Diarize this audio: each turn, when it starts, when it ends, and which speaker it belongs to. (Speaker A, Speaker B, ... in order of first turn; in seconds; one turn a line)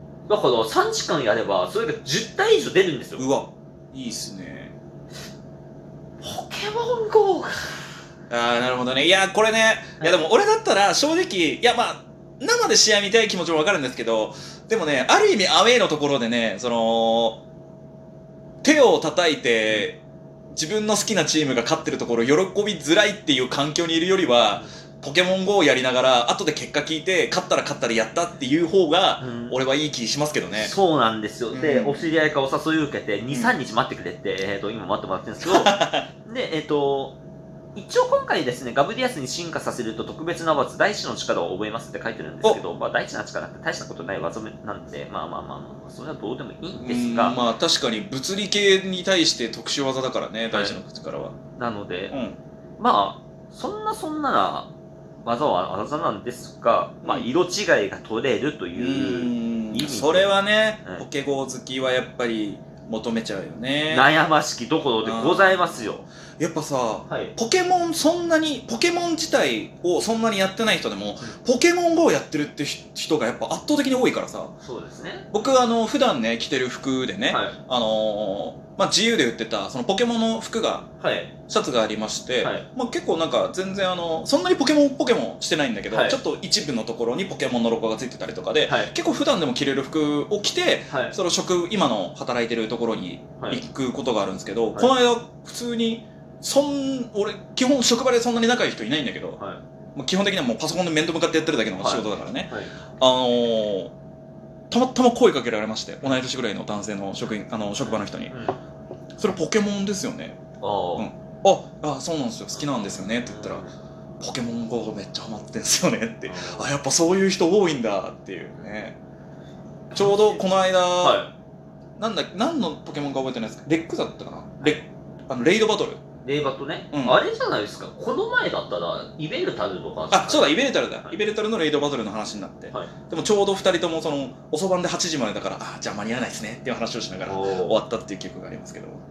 Speaker A: 0.3-3.2
Speaker B: 3.2-4.7
Speaker A: 6.2-7.9
Speaker B: 8.3-17.4
Speaker A: 10.0-10.3
Speaker B: 18.6-20.0
Speaker B: 20.5-30.7
Speaker A: 29.2-29.6
Speaker A: 30.6-37.2
Speaker B: 31.5-32.1
Speaker B: 33.3-33.5
Speaker B: 35.4-36.1
Speaker A: 37.7-47.4
Speaker B: 46.7-51.4
Speaker A: 50.5-50.8
Speaker A: 51.6-52.1
Speaker B: 52.1-52.4
Speaker A: 52.8-54.7
Speaker A: 55.2-61.0
Speaker B: 57.0-57.3
Speaker B: 58.7-64.1
Speaker A: 63.9-66.1
Speaker B: 65.0-74.5
Speaker A: 67.1-67.3
Speaker A: 74.6-75.3
Speaker B: 75.3-80.9
Speaker A: 77.3-77.5
Speaker A: 81.0-81.3
Speaker B: 81.5-99.4
Speaker A: 82.4-82.7
Speaker A: 85.9-86.2
Speaker A: 88.7-88.9
Speaker A: 93.4-93.6
Speaker B: 99.9-103.9
Speaker A: 101.8-102.7
Speaker B: 104.7-108.3
Speaker A: 107.8-108.6
Speaker B: 109.2-110.4
Speaker A: 110.6-111.1
Speaker B: 111.0-113.6
Speaker A: 113.2-113.7
Speaker B: 114.2-119.0
Speaker A: 116.2-116.7
Speaker A: 119.9-120.4
Speaker B: 119.9-121.2
Speaker A: 121.0-121.3
Speaker B: 122.0-126.0
Speaker A: 126.2-131.2
Speaker B: 126.9-127.2
Speaker B: 130.1-139.0
Speaker A: 137.2-137.8